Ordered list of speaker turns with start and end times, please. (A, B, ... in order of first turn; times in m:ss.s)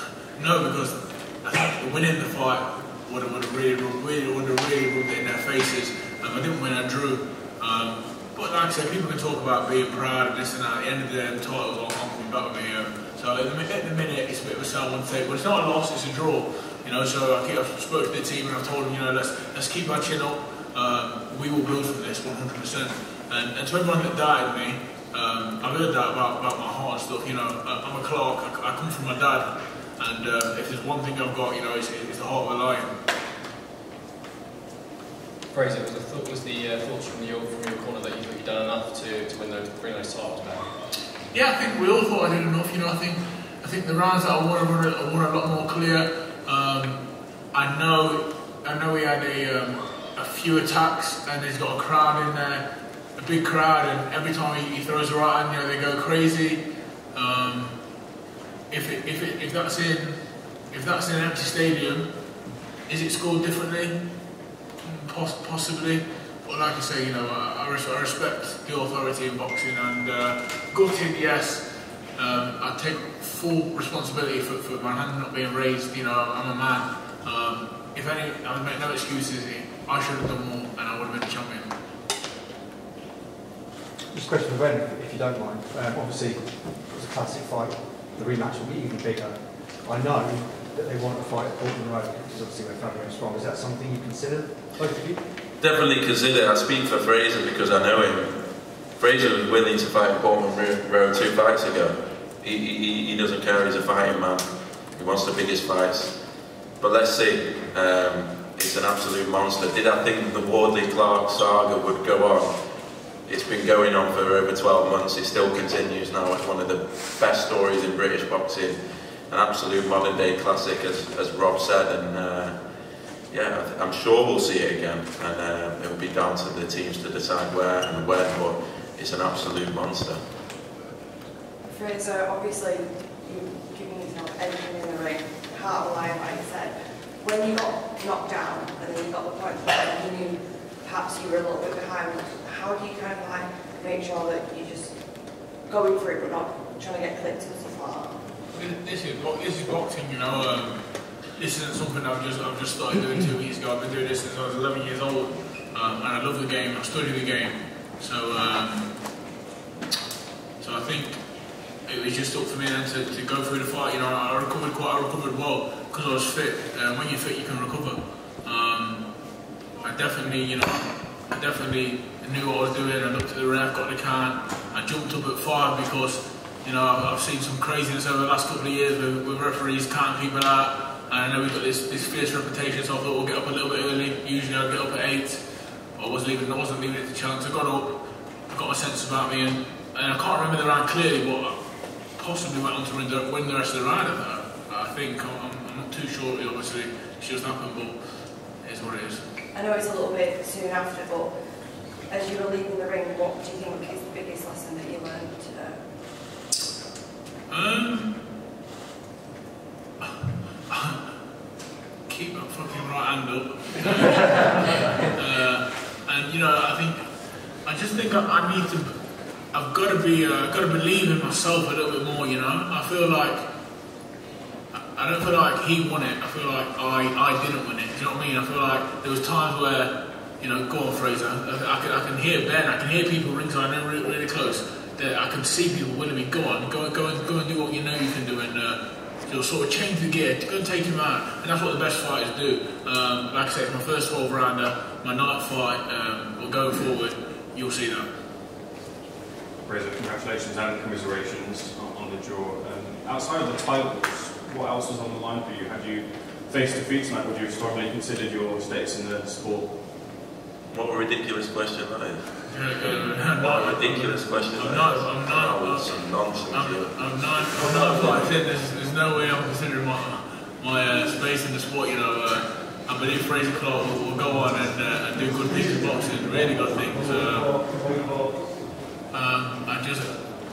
0:00.4-0:33.0 A
0:35.5-0:40.8 B
0:41.3-0:47.0 A
0:47.5-0:56.6 A
0:57.1-0:57.8 A
0:58.7-1:00.2 A
1:00.7-1:02.1 A
1:02.9-1:04.0 A
1:04.8-1:21.7 A
1:24.1-1:35.2 C
1:35.6-1:38.4 D
1:39.0-1:46.1 D
1:46.8-1:52.5 D
1:53.3-1:58.8 D
1:59.3-2:02.5 D
2:03.3-2:10.2 D
2:11.7-2:28.3 E
2:28.5-2:30.8 A
2:31.4-2:38.9 A
2:40.6-2:41.2 A
2:41.8-2:49.0 A
2:49.8-3:05.4 A
3:06.0-3:11.6 A
3:12.1-3:18.0 A
3:18.6-3:19.2 A
3:19.5-3:25.9 E
3:27.5-3:28.2 A
3:30.0-3:31.0 A
3:32.1-3:37.1 A
3:37.6-3:38.9 A
3:39.5-3:43.4 A
3:44.7-4:08.1 A
4:09.6-4:20.0 F
4:20.7-4:22.3 D
4:22.5-4:25.9 A
4:22.8-4:27.1 D
4:26.5-4:37.8 A
4:39.1-4:40.1 A